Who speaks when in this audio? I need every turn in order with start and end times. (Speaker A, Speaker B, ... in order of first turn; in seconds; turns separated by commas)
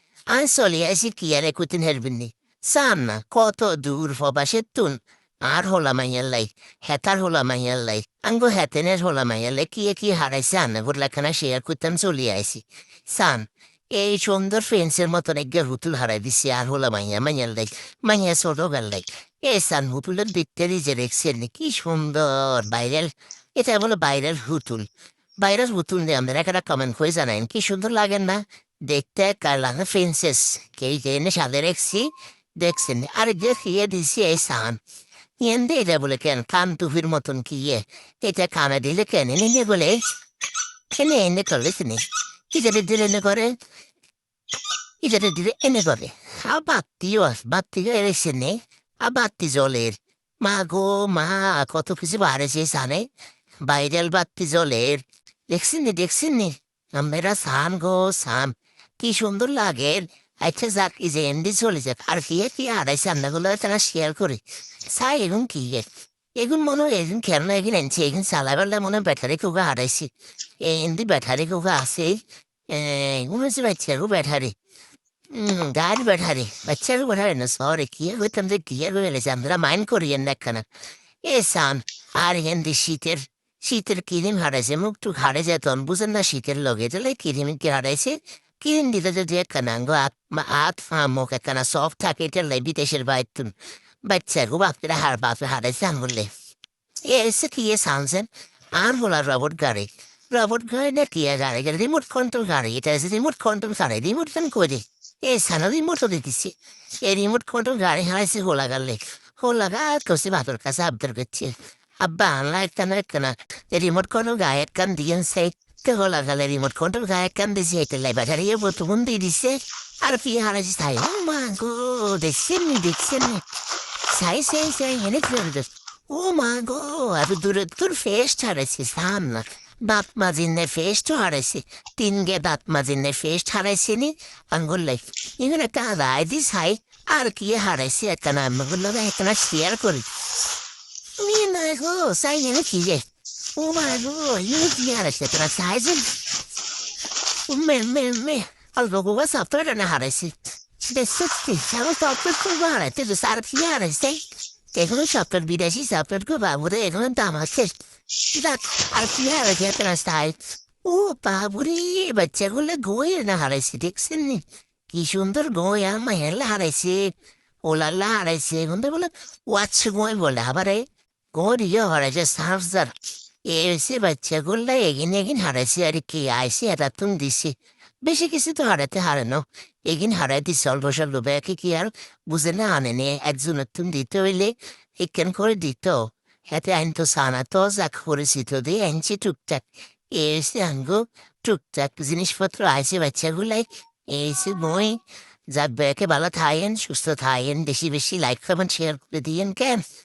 Speaker A: 0.3-24.9, Speaker A: 25.4-34.8, Speaker A: 35.4-40.0, Speaker A: 40.9-43.5, Speaker A: 45.0-53.1, Speaker A: 53.6-74.5, Speaker A: 75.3-80.6, Speaker A: 81.2-96.3, Speaker A: 97.0-123.5, Speaker A: 124.0-140.1, Speaker A: 141.2-146.2, Speaker A: 147.5-157.8, Speaker A: 158.3-172.9, Speaker A: 173.4-199.8